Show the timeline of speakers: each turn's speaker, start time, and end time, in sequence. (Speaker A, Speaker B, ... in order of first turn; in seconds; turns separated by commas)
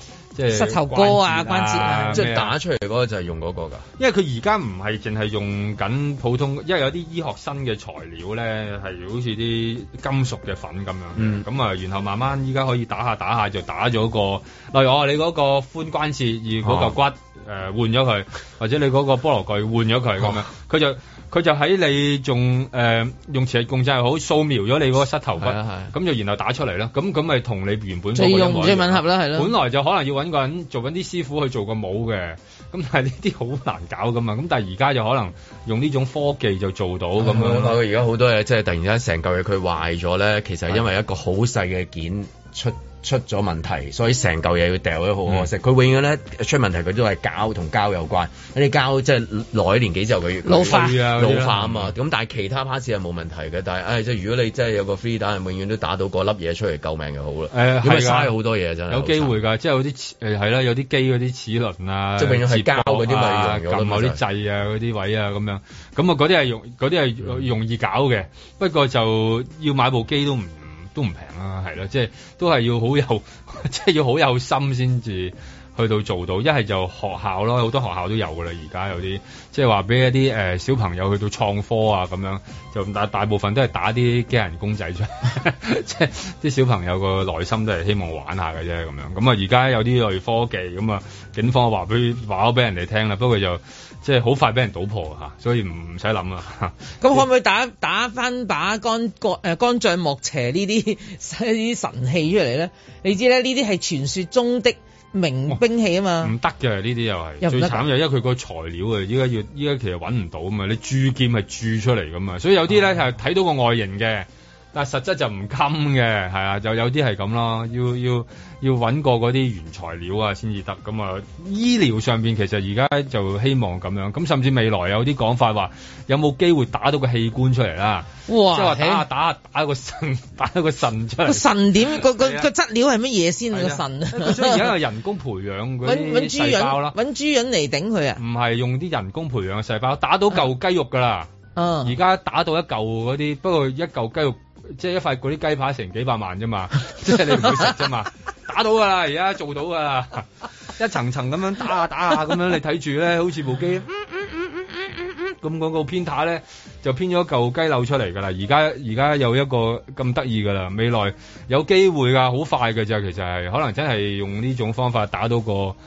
Speaker A: 0.3-2.5, Speaker B: 0.5-2.2, Speaker C: 2.1-3.8, Speaker A: 4.0-37.8, Speaker C: 11.2-11.4, Speaker C: 16.6-17.0, Speaker C: 25.4-25.9, Speaker B: 28.1-29.5, Speaker C: 37.2-59.3, Speaker B: 50.4-51.0, Speaker A: 50.7-52.0, Speaker A: 57.5-58.3, Speaker A: 58.9-97.2, Speaker C: 62.2-64.2, Speaker B: 97.0-106.3, Speaker A: 106.2-132.5, Speaker B: 107.4-107.9, Speaker B: 128.3-129.0, Speaker B: 131.3-134.7, Speaker A: 133.5-136.9, Speaker B: 135.8-138.2, Speaker A: 138.2-141.3, Speaker B: 141.6-141.9, Speaker A: 141.8-165.8